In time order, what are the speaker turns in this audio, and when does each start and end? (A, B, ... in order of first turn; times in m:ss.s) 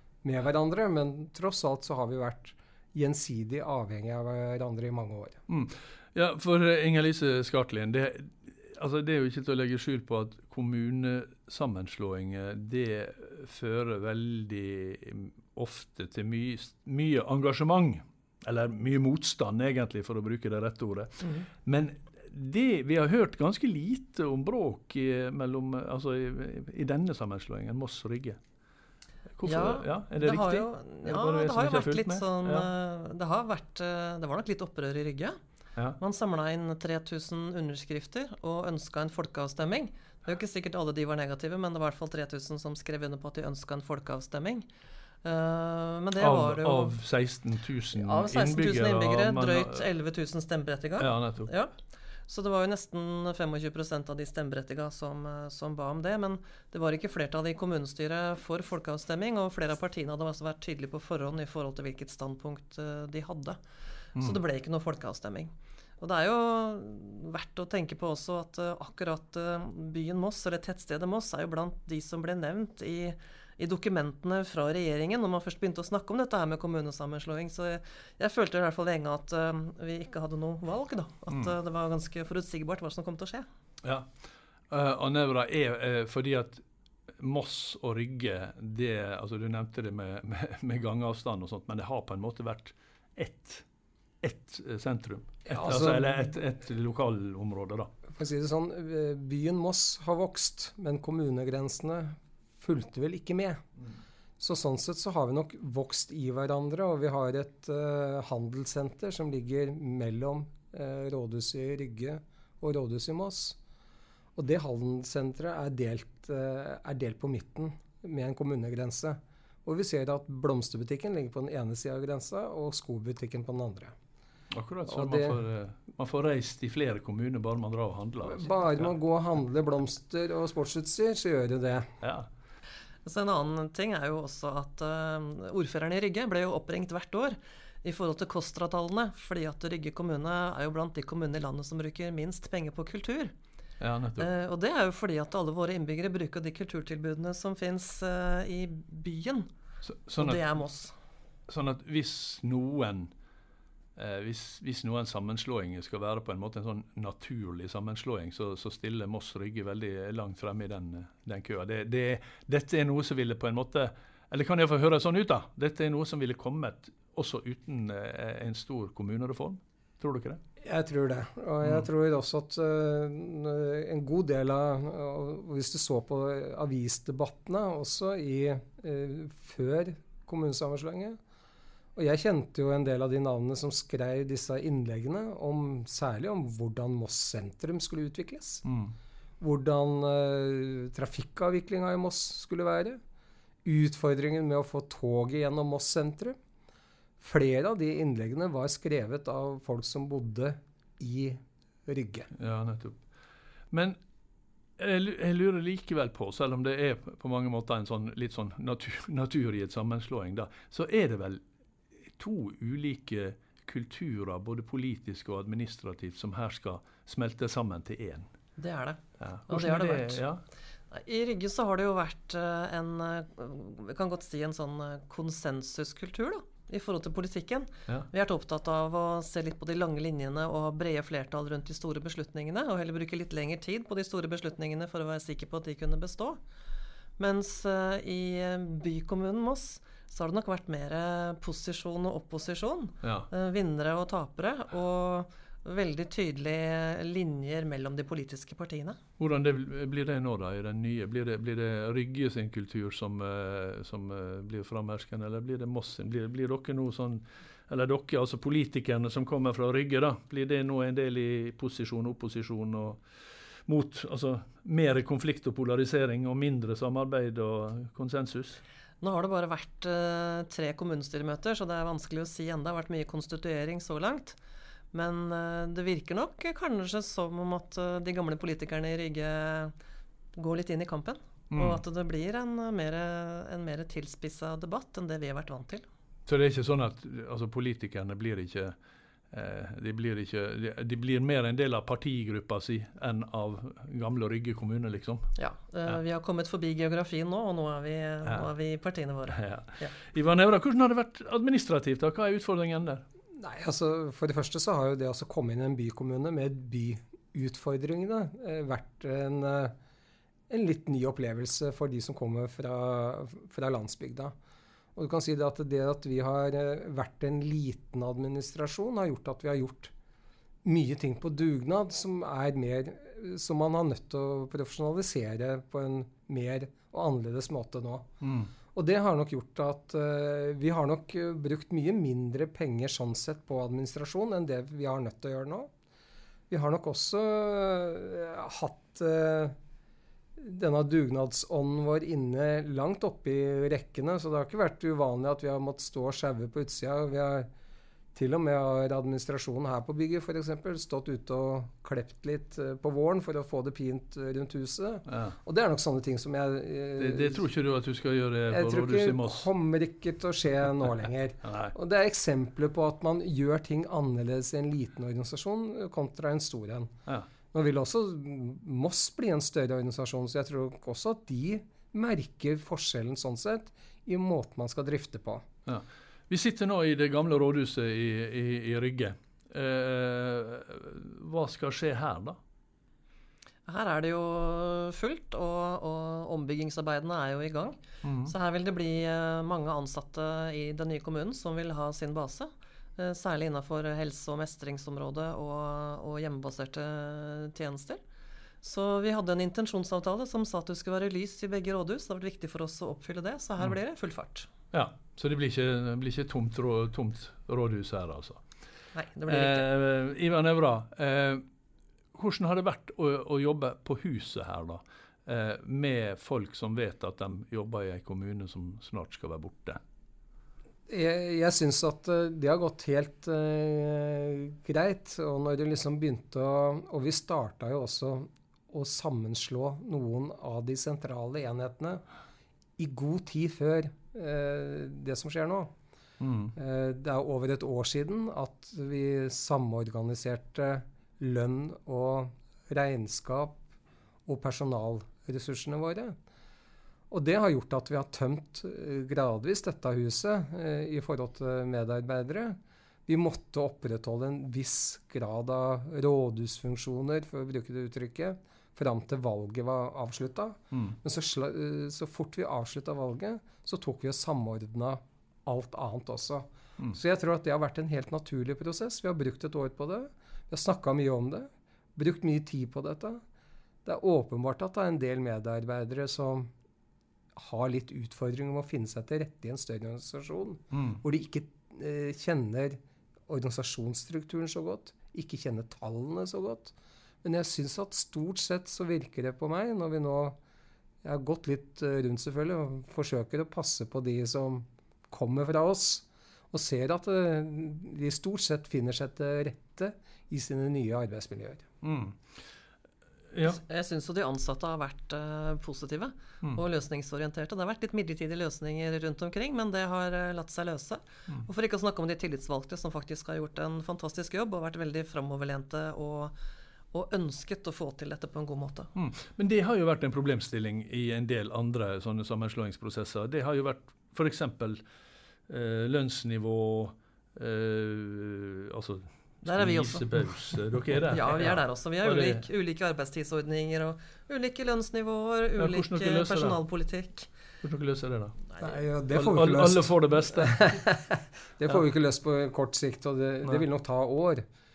0:00.2-0:05.4 A
0:05.5-0:28.4 B
0:29.4-0:32.7 B
0:29.4-0:35.4 C
0:36.0-0:44.7 C
0:45.2-0:47.0 C
0:46.2-0:49.8 B
0:47.9-0:51.7 C
0:51.0-0:51.5 B
0:52.3-1:03.6 C
1:04.2-1:23.5 C
1:23.8-1:24.1 B
1:24.7-1:26.6 B
1:27.2-1:33.6 B
1:34.2-1:37.9 B
1:35.5-1:36.3 A
1:38.1-1:43.6 A
1:44.4-1:53.6 A
1:54.4-2:03.9 A
2:04.5-2:08.9 B
2:04.9-2:05.4 A
2:08.2-2:12.0 A
2:12.0-2:12.3 B
2:13.0-2:23.3 C
2:23.8-2:24.3 B
2:24.2-2:29.5 C
2:29.8-2:30.4 B
2:30.2-2:31.0 C
2:31.5-2:33.1 B
2:34.0-2:50.4 B
2:50.6-3:01.2 A
3:02.0-3:08.6 A
3:08.6-3:08.9 B
3:09.4-3:13.0 A
3:13.6-3:16.4 A
3:17.2-3:22.3 A
3:22.4-3:23.0 B
3:23.7-3:24.0 B
3:24.8-3:31.4 B
3:32.1-3:38.3 B
3:38.6-3:40.2 C
3:39.2-3:40.4 B
3:40.9-3:56.4 C
3:57.2-4:09.0 C
4:03.0-4:03.3 B
4:09.2-4:23.0 B
4:23.7-4:28.6 B
4:29.0-4:34.4 C
4:34.9-4:39.7 C
4:40.4-4:45.9 C
4:41.5-4:41.8 B
4:46.3-4:48.8 B
4:49.3-4:55.3 B
4:55.4-4:59.9 C
4:59.3-5:03.0 B
5:03.4-5:09.7 A
5:10.5-5:14.3 A
5:15.0-5:19.9 A
5:20.6-5:28.1 A
5:28.2-5:28.5 B
5:28.7-5:35.7 A
5:36.5-5:39.6 A
5:40.4-5:47.5 A
5:48.1-5:57.4 A
5:55.1-5:55.4 B
5:57.0-5:59.5 B
5:58.5-6:06.9 A
6:01.4-6:01.7 B
6:07.5-6:15.5 A
6:15.7-6:22.4 B
6:23.7-6:38.0 C
6:28.0-6:28.3 B
6:38.6-6:44.5 C
6:44.7-6:48.4 B
6:48.9-6:49.7 C
6:49.3-6:51.4 B
6:52.1-6:59.8 B
7:00.9-7:12.0 A
7:12.8-7:15.7 A
7:16.2-7:16.5 B
7:16.6-7:23.6 A
7:24.3-7:26.2 A
7:27.1-7:53.2 A
7:53.8-7:56.5 A
7:57.4-8:10.4 A
8:00.7-8:01.0 B
8:11.0-8:21.6 A
8:21.8-8:22.2 B
8:23.3-8:23.6 B
8:23.4-8:36.4 C
8:36.9-8:38.9 C
8:39.0-8:44.8 B
8:45.5-8:52.4 B
8:49.4-8:50.1 C
8:51.1-8:57.3 C
8:55.6-8:56.6 B
8:57.6-8:58.4 B
8:58.5-8:58.8 C
8:58.6-9:04.4 A
8:59.1-9:00.8 B